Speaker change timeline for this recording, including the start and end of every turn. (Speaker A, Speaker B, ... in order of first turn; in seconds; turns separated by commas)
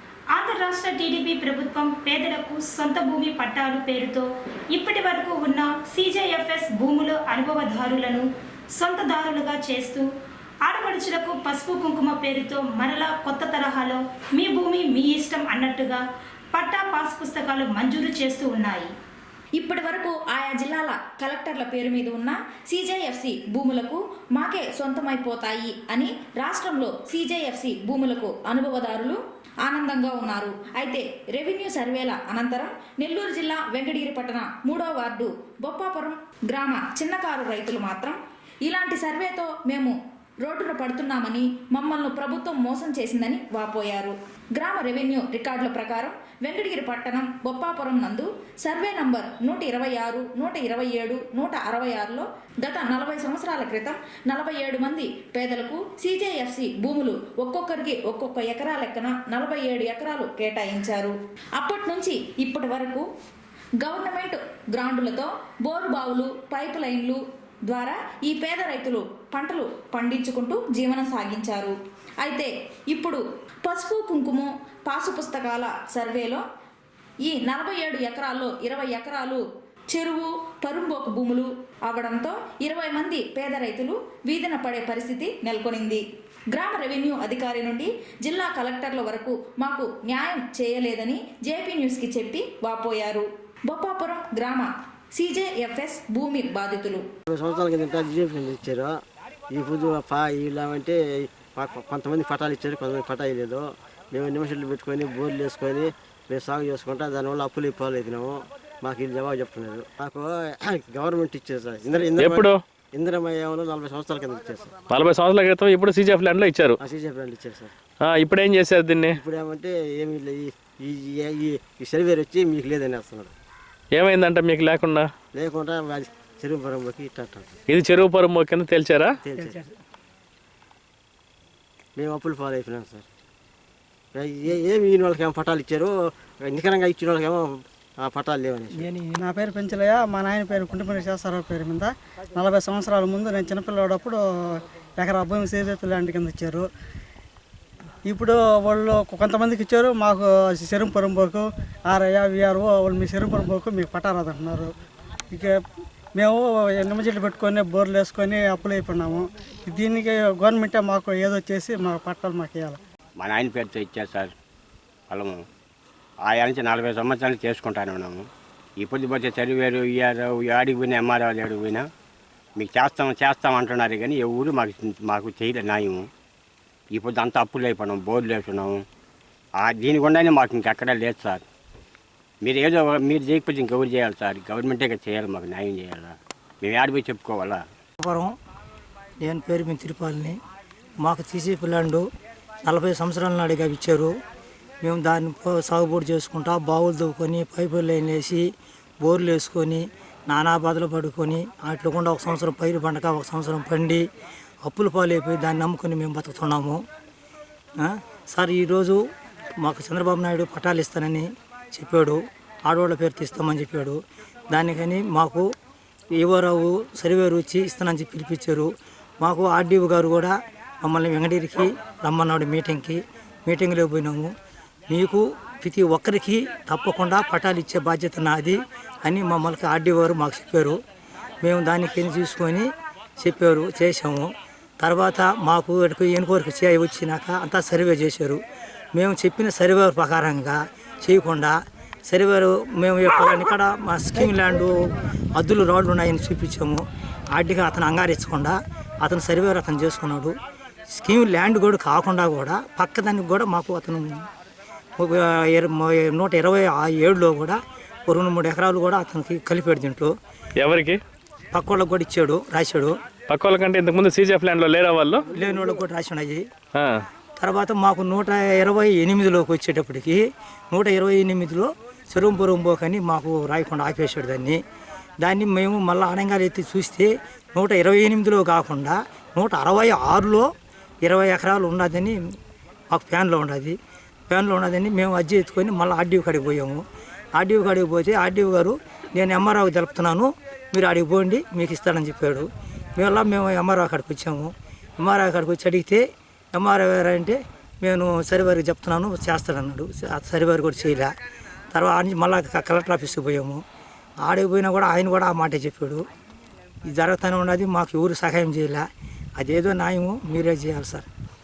Speaker A: 0.3-10.1, Speaker A: 10.7-16.0, Speaker A: 16.5-18.9, Speaker B: 19.6-63.1, Speaker B: 63.8-76.4, Speaker B: 77.2-97.0, Speaker C: 97.3-98.9, Speaker C: 99.5-114.7, Speaker D: 112.2-112.6, Speaker D: 114.9-116.8, Speaker C: 116.8-117.7, Speaker D: 118.0-119.2, Speaker C: 119.1-123.3, Speaker D: 124.0-125.1, Speaker C: 125.3-127.5, Speaker D: 127.7-129.2, Speaker C: 129.3-129.6, Speaker C: 132.0-133.1, Speaker C: 134.2-135.9, Speaker C: 136.4-137.5, Speaker C: 138.0-138.9, Speaker E: 139.2-144.2, Speaker E: 145.0-146.7, Speaker E: 148.1-154.7, Speaker E: 156.2-162.8, Speaker F: 163.2-164.3, Speaker F: 165.1-165.4, Speaker F: 166.3-168.2, Speaker F: 168.8-171.9, Speaker F: 172.6-176.1, Speaker F: 176.9-178.8, Speaker F: 179.6-181.4, Speaker F: 182.4-187.6, Speaker G: 188.0-188.3, Speaker G: 189.2-190.4, Speaker G: 191.0-192.1, Speaker G: 192.7-194.1, Speaker G: 194.8-198.5, Speaker G: 199.0-204.0, Speaker G: 204.6-206.8, Speaker G: 207.8-209.0, Speaker G: 209.6-214.0, Speaker G: 214.5-215.5, Speaker G: 216.2-218.7, Speaker G: 219.2-224.3, Speaker G: 224.9-230.8, Speaker G: 231.4-234.3, Speaker G: 234.8-238.4, Speaker G: 238.9-241.6, Speaker G: 242.1-244.7, Speaker G: 245.4-250.3, Speaker G: 250.9-254.2, Speaker G: 255.0-260.1, Speaker D: 260.6-261.0, Speaker G: 261.5-262.9, Speaker D: 263.3-265.2, Speaker G: 265.3-266.4, Speaker G: 267.4-274.6, Speaker G: 275.2-280.5, Speaker G: 281.1-282.2, Speaker G: 282.9-283.8, Speaker G: 284.3-286.8, Speaker G: 287.4-301.1, Speaker G: 301.7-303.6, Speaker G: 304.2-306.0, Speaker G: 306.9-308.9, Speaker G: 309.4-311.1